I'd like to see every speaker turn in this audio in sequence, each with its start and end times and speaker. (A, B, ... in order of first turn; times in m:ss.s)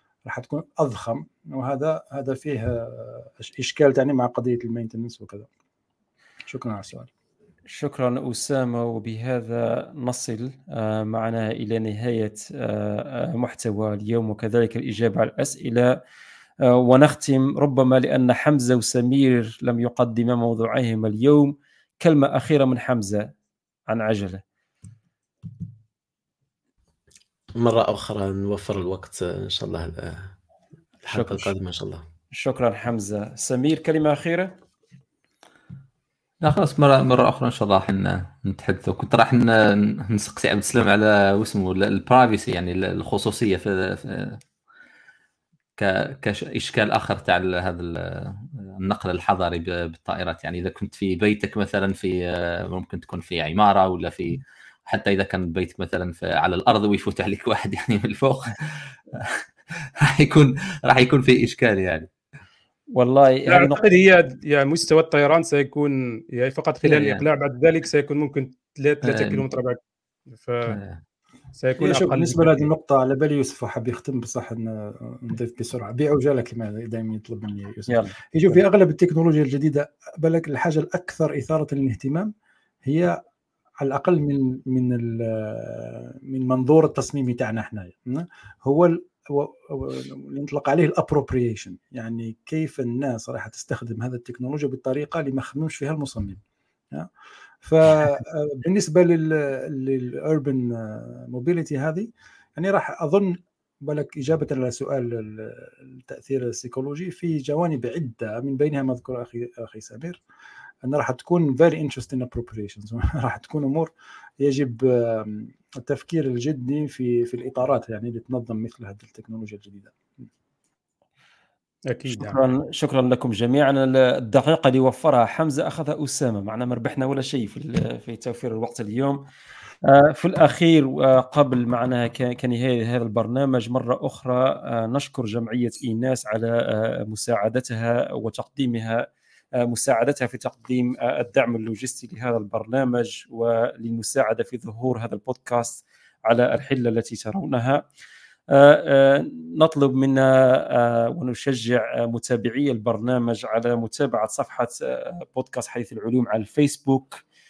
0:00.2-0:05.5 A
0:06.5-0:07.1 A
0:07.7-0:15.9 B
0:16.7-0:23.3 B
0:23.9-0:24.4 B
0:27.6-0:30.3 C
0:31.0-0:32.0 C
0:31.0-0:31.5 B
0:32.3-0:34.5 B
0:36.4-0:44.4 D
0:45.8-0:59.4 D
1:00.0-1:02.1 D
1:02.9-1:03.8 B
1:03.5-1:09.8 E
1:06.8-1:07.2 D
1:09.0-1:09.4 D
1:10.3-1:10.8 E
1:10.7-1:11.0 D
1:11.6-1:12.6 E
1:11.8-1:22.3 A
1:17.9-1:18.6 B
1:22.8-1:23.2 A
1:23.8-1:36.4 A
1:37.6-1:50.2 A
1:50.8-2:00.0 A
2:01.9-2:02.4 E
2:02.1-2:09.2 B
2:09.8-2:19.0 B
2:19.6-2:27.8 B
2:28.5-2:37.2 B